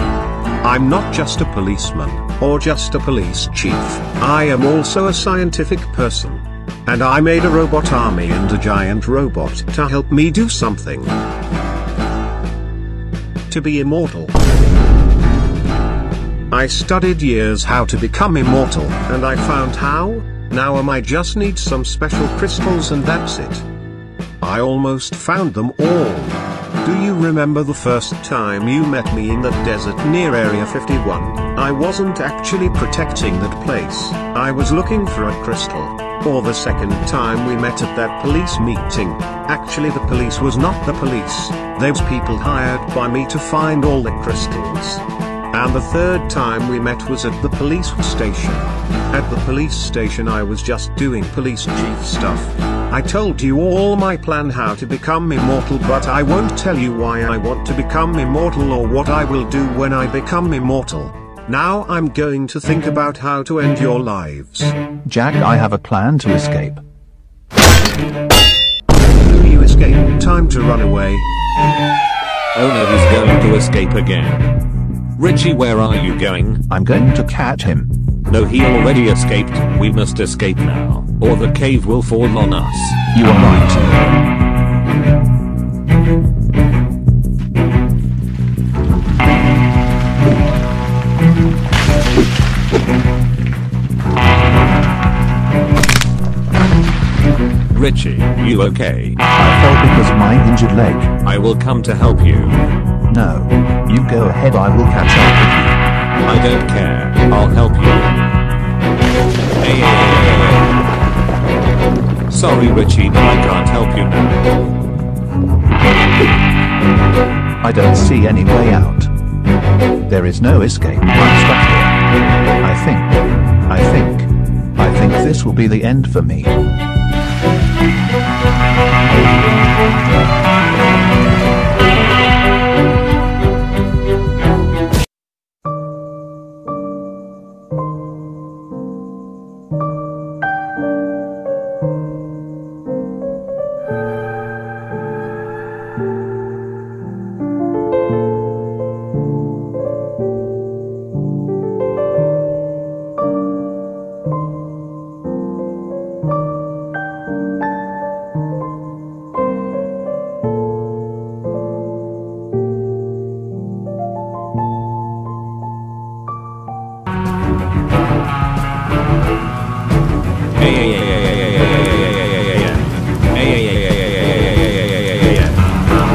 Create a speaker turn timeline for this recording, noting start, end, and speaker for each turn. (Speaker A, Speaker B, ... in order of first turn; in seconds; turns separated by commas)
Speaker A: 0.6-11.2, Speaker A: 13.5-14.3, Speaker A: 16.5-23.6, Speaker A: 24.4-64.7, Speaker B: 65.1-66.8, Speaker A: 69.2-71.3, Speaker C: 72.5-74.5, Speaker C: 75.2-76.6, Speaker B: 76.7-77.9, Speaker C: 78.3-83.0, Speaker B: 83.1-84.2, Speaker C: 97.7-99.2, Speaker B: 99.4-101.1, Speaker C: 101.2-102.6, Speaker B: 103.1-105.8, Speaker C: 106.2-108.2, Speaker C: 109.6-110.8, Speaker C: 112.3-114.4, Speaker B: 117.6-119.1, Speaker B: 120.1-122.0, Speaker B: 122.6-123.2, Speaker B: 123.7-126.6, Speaker C: 170.6-175.7